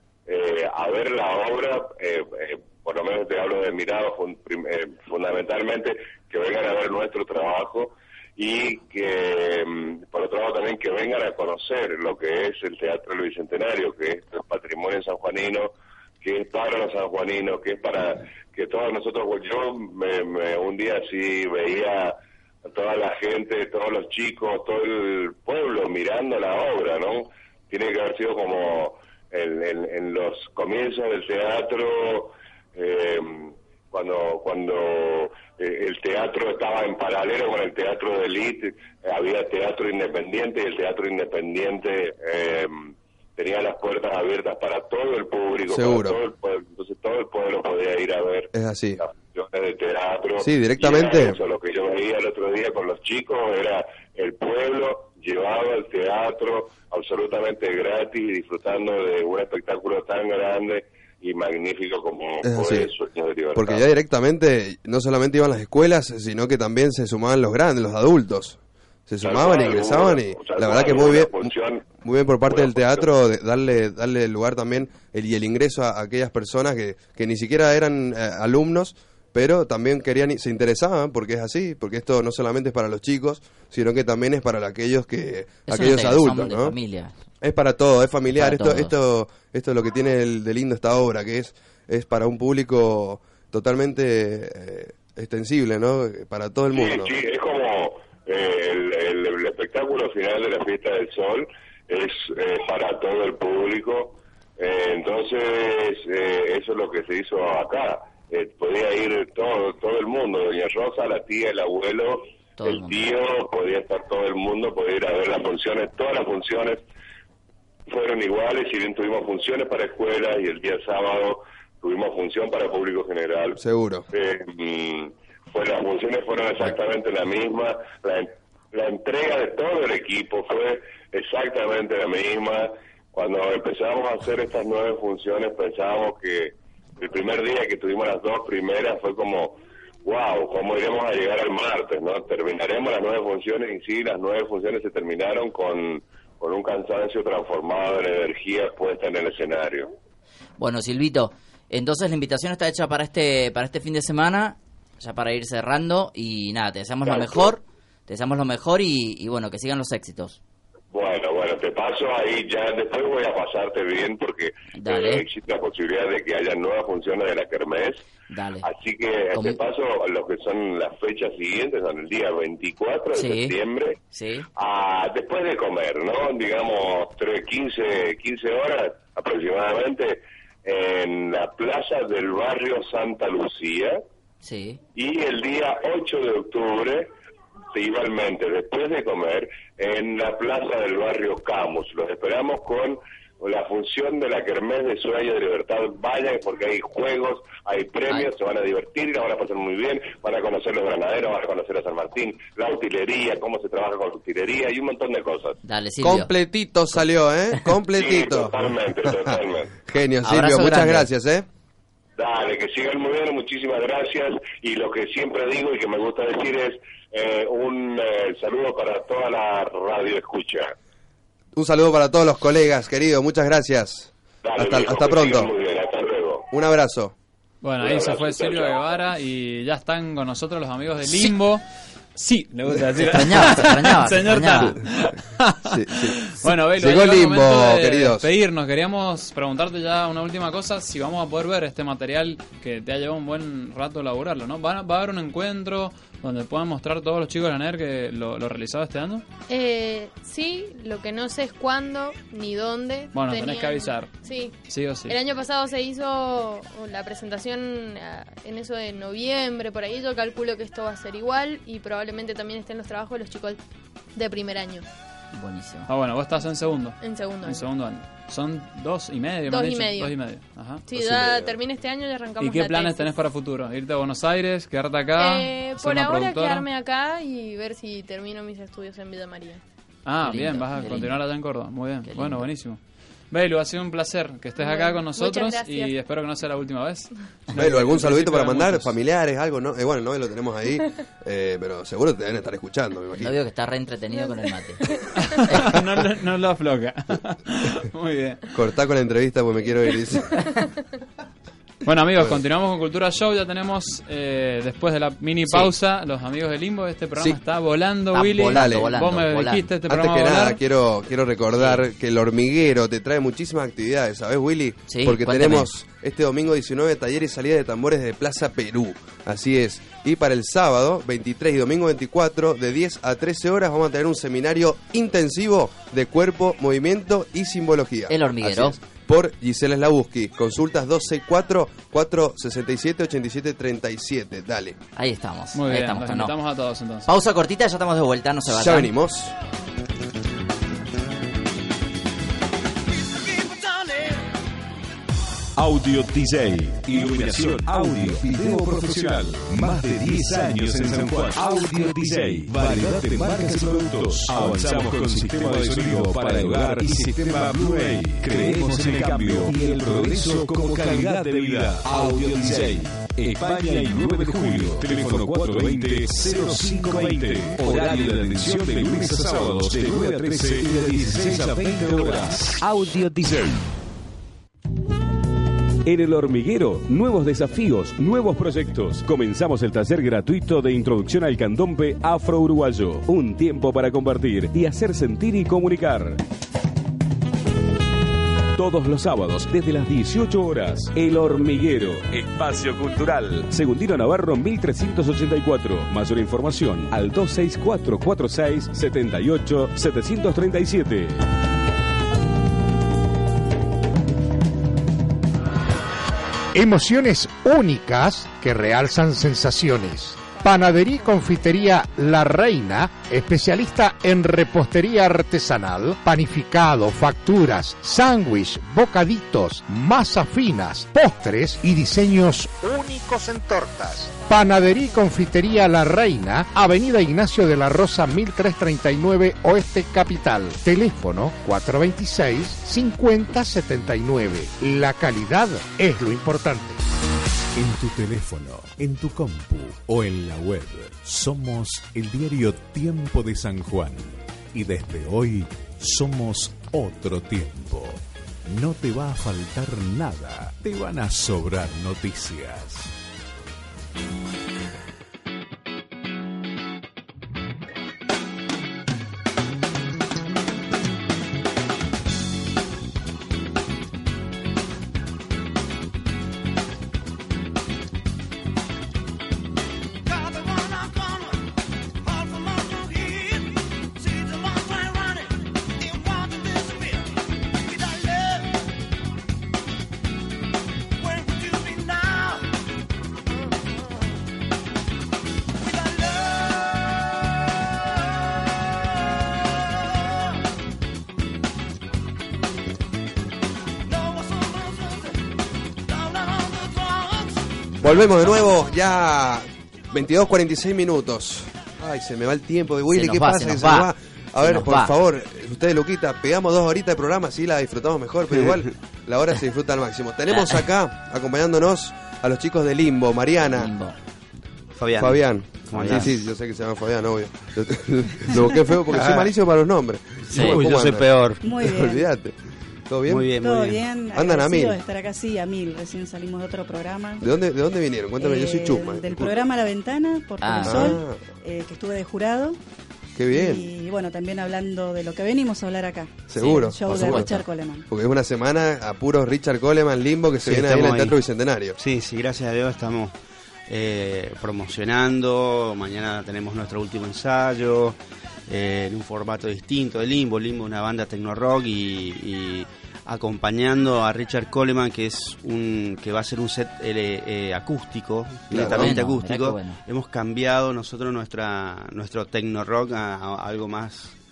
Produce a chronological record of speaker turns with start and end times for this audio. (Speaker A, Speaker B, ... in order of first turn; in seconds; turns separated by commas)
Speaker A: 0.2-63.9, Speaker B: 45.7-46.2, Speaker B: 48.5-49.0, Speaker B: 50.4-51.4, Speaker B: 62.4-62.9, Speaker B: 63.5-86.7, Speaker A: 69.2-73.1, Speaker C: 85.7-87.2, Speaker B: 87.4-97.1, Speaker C: 88.3-88.9, Speaker A: 96.7-116.8, Speaker C: 112.6-113.0, Speaker A: 117.9-149.9, Speaker B: 123.6-124.0, Speaker C: 150.6-160.4, Speaker A: 157.0-157.5, Speaker A: 160.9-168.0, Speaker C: 164.7-165.2, Speaker C: 168.3-168.7, Speaker A: 168.6-174.0, Speaker C: 169.3-169.6, Speaker C: 173.1-173.6, Speaker C: 174.1-174.5, Speaker A: 174.5-184.0, Speaker C: 184.4-184.8, Speaker A: 184.9-187.1, Speaker A: 187.7-205.6, Speaker C: 205.6-206.3, Speaker B: 206.0-209.2, Speaker A: 207.9-209.7, Speaker B: 209.8-211.4, Speaker C: 210.2-211.1, Speaker A: 212.2-220.7, Speaker B: 221.5-225.5, Speaker A: 224.4-226.5, Speaker B: 226.5-227.1, Speaker D: 227.6-231.6, Speaker A: 227.8-229.0, Speaker D: 232.1-235.7, Speaker C: 233.0-234.8, Speaker B: 235.6-238.3, Speaker D: 236.4-249.2, Speaker E: 249.5-254.5, Speaker D: 253.1-254.1, Speaker D: 254.6-255.2, Speaker E: 255.1-263.6, Speaker E: 264.1-264.8, Speaker C: 265.3-265.9, Speaker D: 265.9-270.8, Speaker E: 267.0-267.6, Speaker E: 269.5-270.1, Speaker E: 270.9-273.1, Speaker B: 270.9-271.5, Speaker D: 272.4-276.6, Speaker E: 275.2-279.6, Speaker D: 280.1-282.8, Speaker C: 280.2-281.2, Speaker C: 282.0-282.5, Speaker D: 283.3-288.9, Speaker E: 284.6-285.9, Speaker B: 287.5-293.3, Speaker C: 293.2-294.8, Speaker D: 295.2-298.4, Speaker C: 295.4-295.7, Speaker B: 298.5-300.4, Speaker D: 301.8-310.6, Speaker C: 305.5-305.7, Speaker C: 308.1-309.7, Speaker B: 308.4-308.9, Speaker B: 309.9-334.8, Speaker C: 311.6-311.8, Speaker C: 314.9-315.7, Speaker C: 328.1-328.8, Speaker C: 334.9-336.3, Speaker D: 335.5-337.1, Speaker C: 337.1-338.9, Speaker B: 338.5-339.3, Speaker F: 343.3-343.9, Speaker F: 345.6-373.6, Speaker F: 375.8-386.2, Speaker F: 388.5-401.2, Speaker G: 406.5-436.8, Speaker H: 437.6-447.9, Speaker H: 448.5-452.8, Speaker F: 472.7-473.2, Speaker F: 474.5-475.1, Speaker F: 476.3-476.7, Speaker F: 481.3-482.2, Speaker B: 497.8-513.7, Speaker C: 502.9-504.9, Speaker I: 508.3-508.6, Speaker C: 510.3-510.6, Speaker C: 513.5-514.0, Speaker I: 514.7-516.2, Speaker B: 515.0-522.3, Speaker C: 515.7-516.1, Speaker I: 518.9-519.3, Speaker I: 520.2-521.4, Speaker C: 520.3-520.6, Speaker J: 521.4-522.1, Speaker B: 522.9-523.4, Speaker I: 523.1-523.8, Speaker J: 523.3-527.3, Speaker B: 524.1-524.8, Speaker B: 527.2-529.4, Speaker J: 528.2-532.6, Speaker C: 530.4-531.0, Speaker B: 530.6-531.2, Speaker B: 533.1-533.7, Speaker J: 533.3-537.9, Speaker B: 536.3-541.8, Speaker C: 536.4-537.4, Speaker I: 536.9-537.3, Speaker I: 540.4-541.2, Speaker I: 541.8-543.1, Speaker I: 543.7-564.1, Speaker B: 558.5-558.9, Speaker C: 558.5-559.8